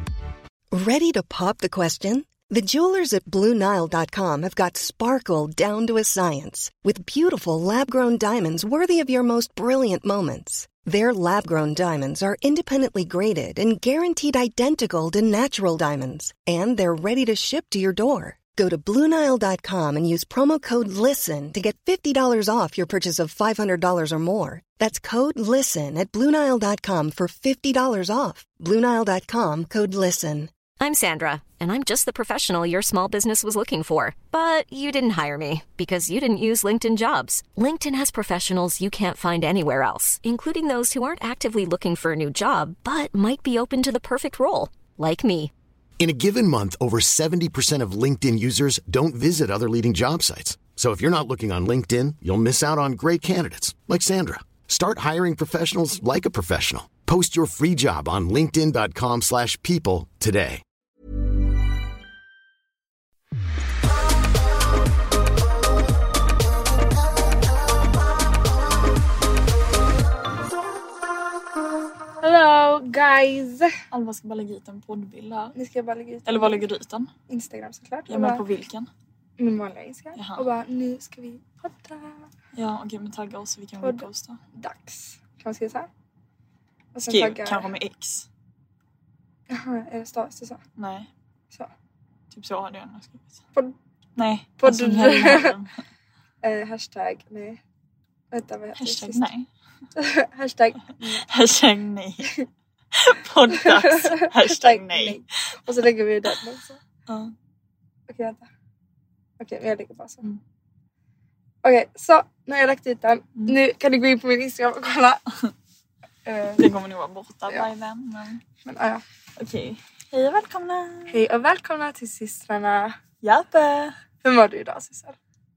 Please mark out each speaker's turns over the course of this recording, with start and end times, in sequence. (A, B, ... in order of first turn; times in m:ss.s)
0:00.7-0:30.5 A
0:30.8-0:45.5 B
0:46.0-1:00.6 C
1:12.2-1:13.7 D
1:13.9-1:15.6 E
1:15.6-1:16.6 D
1:16.2-1:17.1 E
1:17.3-1:18.4 D
1:18.1-1:18.9 E
1:19.4-1:22.3 D
1:20.1-1:20.4 E
1:22.5-1:24.4 E
1:23.8-1:25.9 D
1:26.9-1:27.7 D
1:27.1-1:28.3 E
1:29.5-1:30.6 D
1:30.8-1:31.1 E
1:32.3-1:33.4 E
1:34.2-1:35.7 E
1:34.6-1:35.6 D
1:36.4-1:37.6 D
1:38.3-1:39.2 D
1:38.8-1:39.5 E
1:39.9-1:41.2 D
1:41.2-1:42.3 E
1:42.9-1:45.2 E
1:43.5-1:46.8 D
1:47.1-1:47.3 E
1:48.1-1:48.5 D
1:49.4-1:50.2 D
1:51.6-1:55.2 D
1:56.2-1:56.7 D
1:56.6-1:58.4 E
1:58.6-1:59.0 D
1:59.4-2:01.2 E
2:01.1-2:03.0 D
2:03.2-2:03.9 E
2:04.2-2:05.2 D